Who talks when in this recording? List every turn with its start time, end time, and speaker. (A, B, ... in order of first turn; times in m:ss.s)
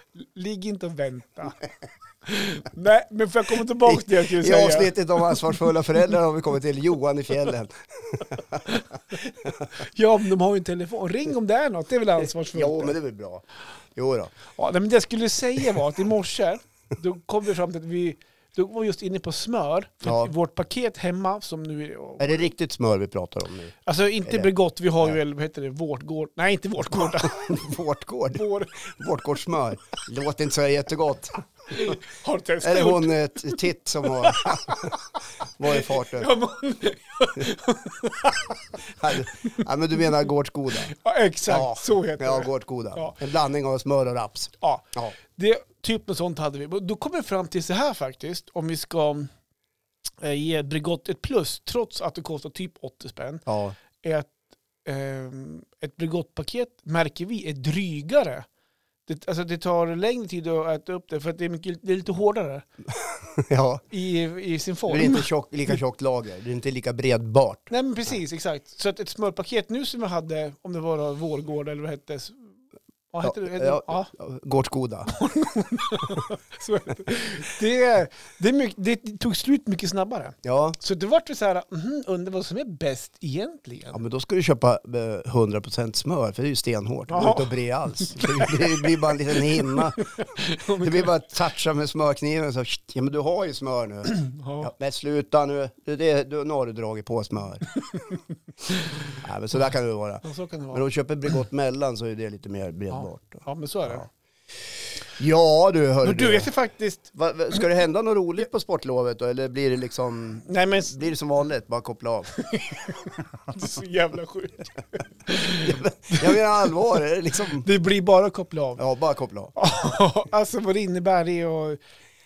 0:00.2-0:01.6 A
0:02.2-0:05.6 A
0:03.8-0:08.8 B
0:09.7-0:12.9 A
0:12.5-0:13.4 B
0:14.0-0:14.3 B
0:14.6-0:22.5 A
0:20.0-0:20.3 B
0:22.2-0:24.5 B
0:23.8-0:27.5 A
0:27.3-0:32.0 B
0:28.3-0:28.7 A
0:31.7-0:35.0 A
0:32.6-0:35.0 B
0:35.6-0:36.3 B
0:35.7-0:39.2 A
0:38.9-0:40.9 B
0:40.9-0:43.2 A
0:41.5-0:45.1 B
0:44.6-0:49.3 A
0:50.2-0:54.3 A
0:53.5-0:53.8 B
0:54.8-0:58.5 A
0:59.0-1:02.6 A
1:02.9-1:03.8 B
1:03.9-1:05.8 A
1:04.9-1:07.7 B
1:07.7-1:12.5 A
1:13.1-1:14.1 A
1:13.2-1:15.1 B
1:15.1-1:24.0 A
1:20.4-1:20.8 B
1:23.9-1:30.1 B
1:27.1-1:31.1 A
1:30.7-1:37.7 B
1:34.0-1:34.7 A
1:38.6-1:39.2 A
1:39.2-1:44.1 B
1:40.2-1:40.8 A
1:42.9-1:44.0 A
1:45.2-1:46.5 B
1:46.0-1:47.1 A
1:47.1-1:52.4 B
1:50.4-1:51.0 A
1:52.4-1:56.4 A
1:55.5-1:57.6 B
1:57.5-1:58.8 A
1:58.8-1:59.5 B
1:59.6-2:01.8 A